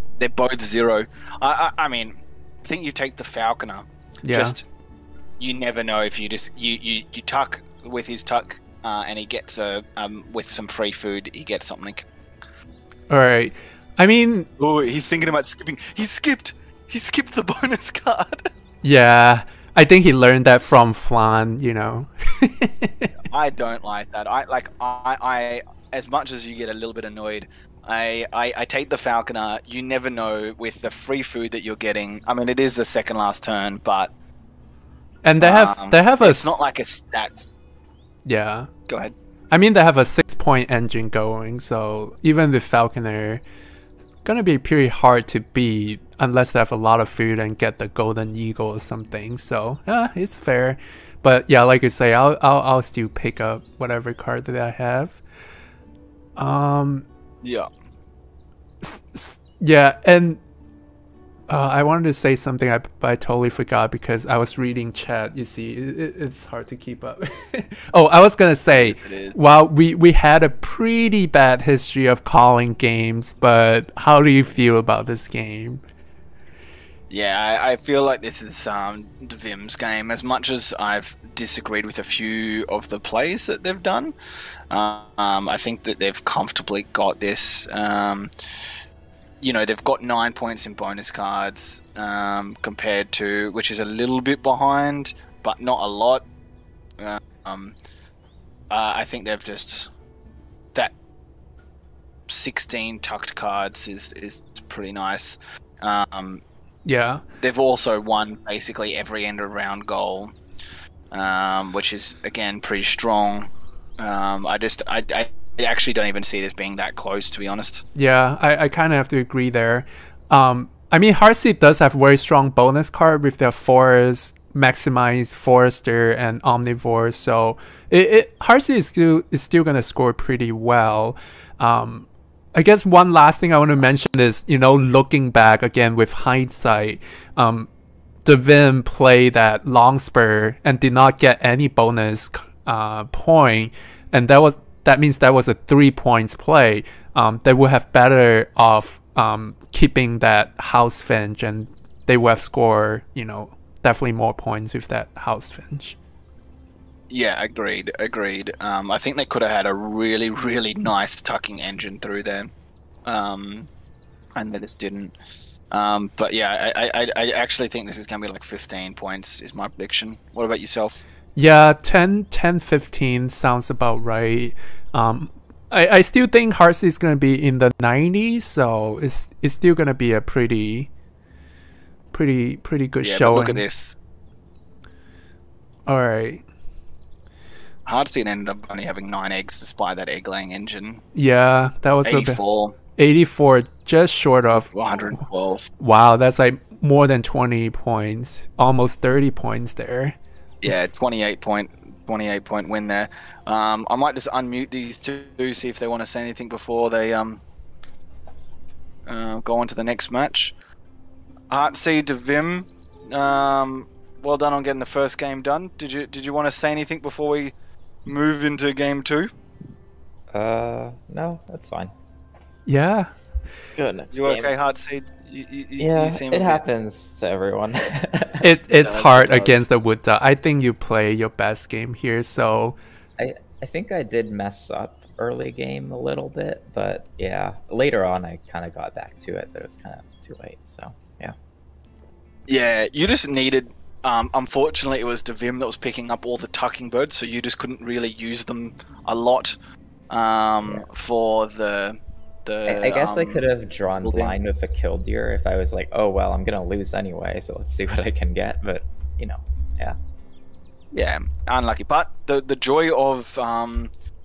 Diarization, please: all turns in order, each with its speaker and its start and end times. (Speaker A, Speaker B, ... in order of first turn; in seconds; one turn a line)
Speaker A: 0.2-4.6
Speaker B: 4.2-4.6
Speaker A: 5.4-12.1
Speaker B: 13.1-14.5
Speaker A: 14.6-18.5
Speaker B: 18.8-23.1
Speaker A: 23.3-34.1
Speaker B: 35.2-36.5
Speaker A: 35.4-37.5
Speaker B: 38.2-38.7
Speaker A: 38.9-39.1
Speaker B: 39.5-43.4
Speaker B: 44.2-55.2
Speaker B: 56.4-57.1
Speaker A: 57.4-57.7
Speaker B: 58.8-60.4
Speaker B: 61.5-75.8
Speaker A: 68.7-69.4
Speaker A: 77.1-84.1
Speaker A: 84.7-88.8
Speaker A: 89.4-96.2
Speaker A: 97.0-97.8
Speaker A: 98.7-99.9
Speaker A: 102.3-106.4
Speaker B: 106.8-107.2
Speaker A: 107.4-110.4
Speaker A: 111.1-117.8
Speaker B: 118.0-137.7
Speaker B: 138.2-156.0
Speaker A: 157.1-162.5
Speaker A: 163.1-163.7
Speaker A: 164.3-165.2
Speaker A: 165.7-171.0
Speaker B: 171.4-180.9
Speaker B: 182.1-183.6
Speaker A: 183.0-184.0
Speaker B: 185.9-186.4
Speaker A: 187.9-191.0
Speaker B: 191.2-192.4
Speaker A: 192.1-192.8
Speaker B: 193.0-194.7
Speaker A: 194.7-195.7
Speaker B: 195.8-200.2
Speaker A: 200.6-207.4
Speaker A: 209.1-210.6
Speaker A: 211.5-217.5
Speaker A: 218.1-219.3
Speaker C: 220.3-221.9
Speaker B: 222.7-223.1
Speaker C: 223.8-224.5
Speaker A: 224.1-226.6
Speaker C: 225.8-228.5
Speaker B: 228.4-232.8
Speaker A: 228.8-229.7
Speaker C: 233.2-241.3
Speaker A: 242.5-249.6
Speaker A: 250.1-253.5
Speaker C: 252.7-260.0
Speaker A: 254.0-254.3
Speaker A: 260.9-263.9